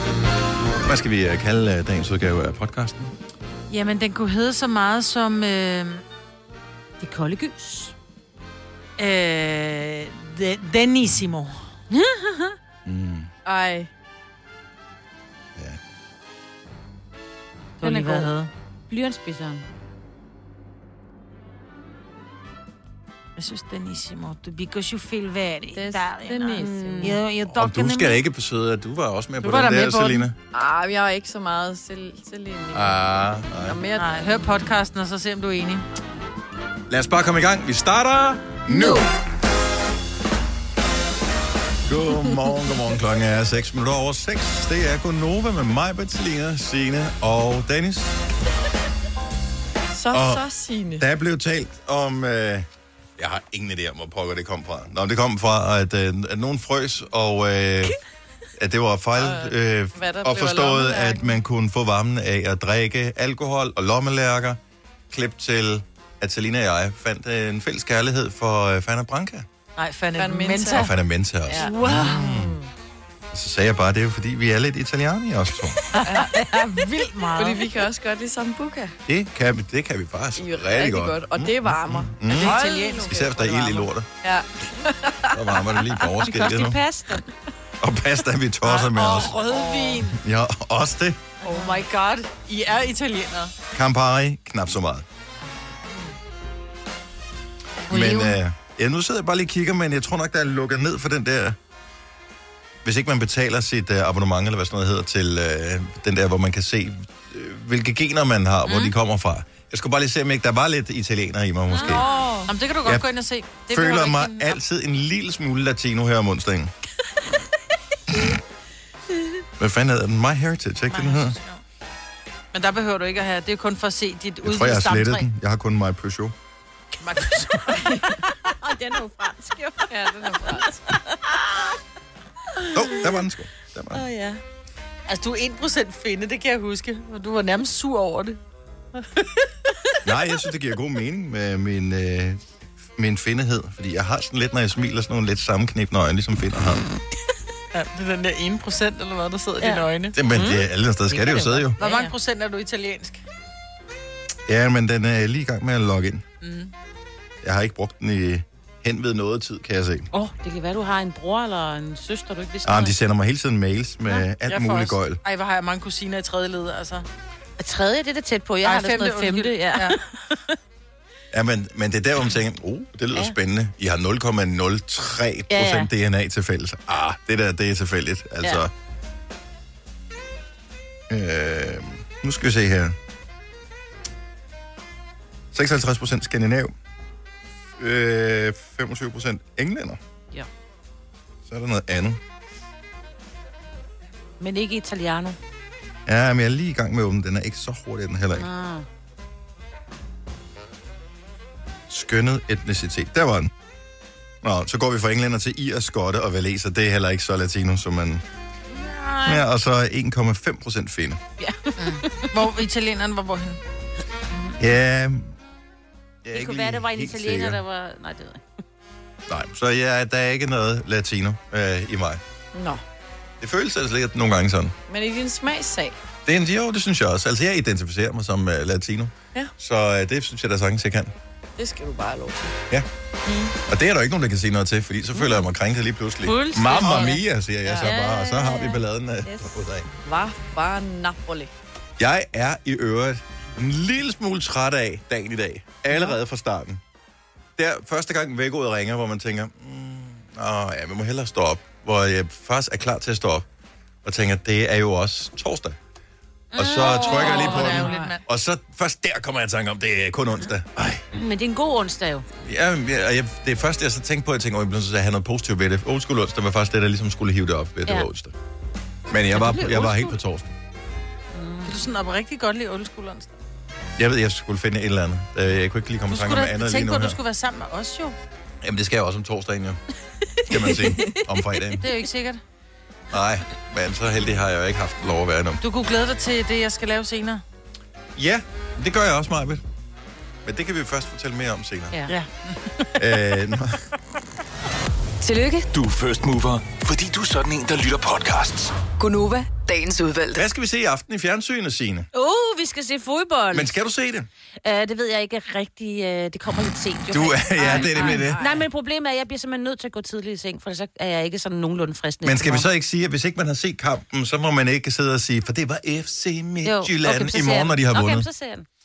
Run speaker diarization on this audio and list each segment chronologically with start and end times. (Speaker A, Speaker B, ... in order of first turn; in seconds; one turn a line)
Speaker A: 0.9-3.1
Speaker B: 3.7-6.0
Speaker C: 7.0-7.9
Speaker B: 9.0-11.6
Speaker C: 11.9-12.6
Speaker A: 12.8-13.3
Speaker D: 13.4-13.9
Speaker B: 17.8-18.5
Speaker C: 17.8-18.3
Speaker C: 18.9-19.7
Speaker B: 23.4-27.3
Speaker D: 25.7-27.2
Speaker C: 26.5-28.2
Speaker A: 27.5-30.4
Speaker B: 29.4-30.3
Speaker D: 30.5-33.1
Speaker A: 32.7-33.8
Speaker D: 33.6-34.4
Speaker B: 34.0-35.9
Speaker A: 36.9-39.1
Speaker A: 41.9-48.1
Speaker D: 49.9-51.0
Speaker A: 50.1-50.4
Speaker A: 51.0-58.0
Speaker A: 58.6-69.5
Speaker D: 59.2-61.4
Speaker B: 69.8-70.9
Speaker D: 70.2-70.9
Speaker A: 70.7-72.6
Speaker B: 71.5-72.3
Speaker D: 71.5-72.7
Speaker A: 73.3-75.8
Speaker B: 75.9-77.7
Speaker D: 76.1-76.4
Speaker D: 77.4-78.9
Speaker A: 79.1-84.1
Speaker D: 80.4-85.9
Speaker B: 82.3-83.1
Speaker A: 85.3-86.8
Speaker B: 86.2-87.3
Speaker A: 87.8-89.4
Speaker B: 88.6-90.2
Speaker D: 89.4-90.0
Speaker A: 90.1-91.3
Speaker D: 91.4-91.8
Speaker B: 91.5-93.5
Speaker A: 93.7-95.0
Speaker A: 97.9-101.6
Speaker B: 97.9-98.4
Speaker A: 102.8-112.0
Speaker B: 108.7-108.9
Speaker B: 111.8-114.6
Speaker D: 111.8-112.5
Speaker A: 113.7-116.7
Speaker A: 119.6-121.4
Speaker B: 120.9-121.6
Speaker B: 122.5-125.3
Speaker A: 124.4-126.3
Speaker B: 127.0-128.0
Speaker D: 127.8-128.1
Speaker C: 128.6-131.8
Speaker D: 129.9-130.8
Speaker A: 132.7-134.0
Speaker C: 133.9-134.4
Speaker B: 135.1-138.4
Speaker B: 139.0-139.4
Speaker A: 140.0-142.4
Speaker A: 143.0-146.9
Speaker B: 147.7-150.2
Speaker C: 149.6-152.1
Speaker A: 150.1-151.8
Speaker B: 151.8-153.2
Speaker A: 154.5-156.2
Speaker B: 156.4-156.7
Speaker A: 157.4-160.1
Speaker C: 160.1-162.9
Speaker A: 162.6-165.2
Speaker B: 164.5-167.1
Speaker C: 167.6-170.6
Speaker B: 168.7-170.0
Speaker A: 171.3-178.7
Speaker C: 175.5-175.9
Speaker A: 181.1-183.0
Speaker A: 185.5-186.7
Speaker A: 187.8-190.0
Speaker A: 191.5-192.2
Speaker C: 194.4-195.4
Speaker A: 196.1-198.5
Speaker C: 198.3-198.9
Speaker A: 201.9-203.5
Speaker A: 204.4-208.2
Speaker B: 208.7-209.4
Speaker A: 209.2-211.2
Speaker C: 211.4-212.3
Speaker B: 211.8-213.6
Speaker A: 214.6-215.3
Speaker A: 216.2-217.6
Speaker C: 216.3-218.4
Speaker A: 219.3-222.2
Speaker D: 222.5-222.8
Speaker A: 223.4-224.8
Speaker D: 224.9-226.0
Speaker A: 226.3-231.1
Speaker D: 231.6-232.6
Speaker C: 233.2-233.6
Speaker A: 233.7-239.9
Speaker C: 235.2-235.5
Speaker C: 236.2-237.2
Speaker C: 237.8-239.5
Speaker D: 240.1-241.5
Speaker A: 242.0-246.8
Speaker A: 247.6-253.5
Speaker A: 254.0-255.8
Speaker C: 256.6-258.0
Speaker A: 256.6-261.0
Speaker B: 256.8-258.2
Speaker C: 261.1-262.3
Speaker A: 262.4-268.3
Speaker A: 269.1-270.5
Speaker C: 269.4-270.1
Speaker C: 271.3-271.9
Speaker B: 271.6-273.4
Speaker A: 274.0-277.2
Speaker B: 276.1-278.2
Speaker A: 278.6-279.8
Speaker A: 280.5-281.8
Speaker B: 281.8-282.4
Speaker A: 283.1-285.6
Speaker B: 285.6-287.4
Speaker A: 288.2-289.6
Speaker A: 290.4-292.0
Speaker B: 292.1-292.9
Speaker A: 293.0-293.8
Speaker E: 295.2-295.7
Speaker F: 295.7-298.7
Speaker E: 298.9-300.5
Speaker A: 300.4-302.1
Speaker C: 302.1-303.8
Speaker A: 303.5-304.3
Speaker C: 304.6-312.7
Speaker A: 307.1-308.4
Speaker D: 307.6-308.6
Speaker A: 312.2-318.3
Speaker C: 316.6-318.7